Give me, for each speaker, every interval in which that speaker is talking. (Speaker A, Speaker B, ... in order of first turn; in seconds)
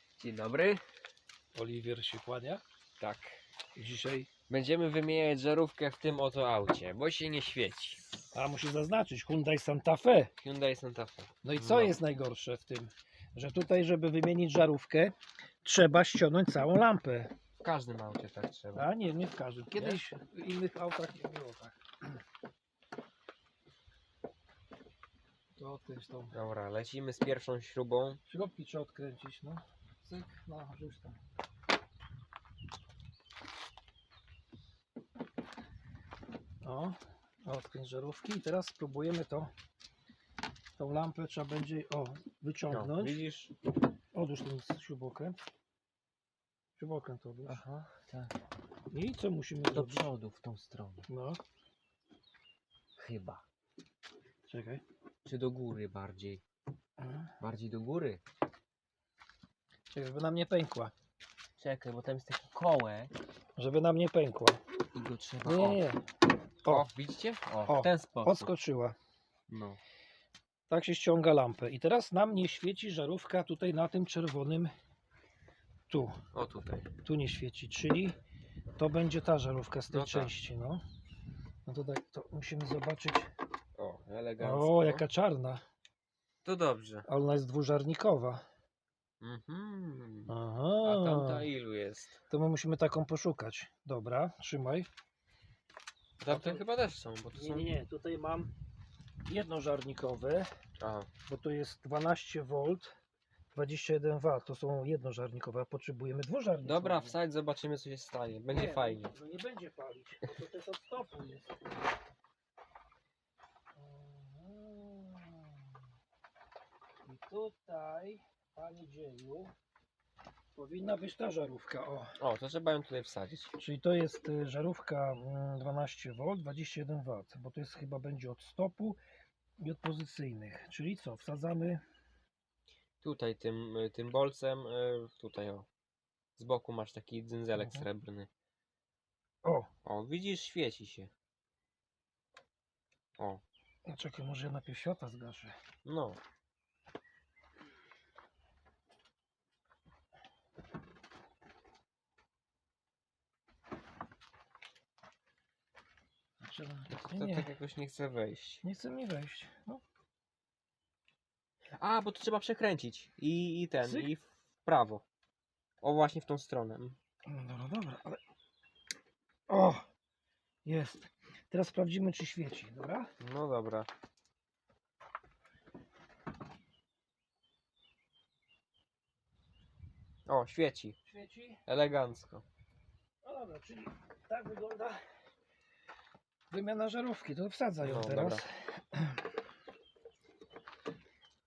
Speaker A: 0.2-0.8, 3.0-3.4, 4.5-8.0, 10.4-12.0, 17.6-18.9, 19.8-20.0, 26.3-28.2, 42.7-43.5, 47.5-48.3, 49.7-51.1, 53.0-53.5, 55.2-56.4, 57.4-58.2, 61.6-63.1, 64.9-65.8, 66.7-68.5, 69.5-69.8, 76.3-76.9, 79.9-80.3, 83.8-85.0, 86.4-87.0, 89.2-92.2, 96.2-97.7, 100.8-101.1, 106.6-109.1, 122.2-123.5, 133.0-135.7, 136.4-138.3, 139.8-141.1, 145.8-146.2, 157.1-158.6, 161.7-165.0, 165.8-167.0, 173.2-173.9, 180.3-181.0, 181.7-182.4, 187.8-188.4
Speaker B: 1.5-2.6, 3.8-4.3, 8.3-10.3, 11.4-17.3, 18.7-21.8, 25.6-26.4, 28.3-31.2, 36.6-39.5, 40.8-43.2, 44.1-45.4, 46.8-47.6, 48.9-50.0, 51.1-51.4, 54.5-54.8, 57.0-57.3, 59.9-60.9, 63.6-64.6, 65.4-66.1, 67.6-69.0, 70.7-74.7, 75.9-76.2, 77.0-78.2, 78.8-80.8, 81.7-83.3, 84.4-85.6, 87.1-88.4, 90.3-91.5, 92.3-94.9, 96.3-96.6, 97.3-98.5, 99.2-100.5, 101.2-103.0, 103.5-107.2, 108.5-111.7, 113.8-115.7, 117.0-119.5, 120.5-122.2, 123.6-129.0, 129.6-131.8, 137.6-137.9, 139.4-139.7, 143.9-145.6, 156.4-157.5, 158.6-159.8, 163.8-164.1, 167.3-168.2, 169.5-169.9, 170.7-173.1, 181.1-181.6, 183.2-185.1, 186.5-189.2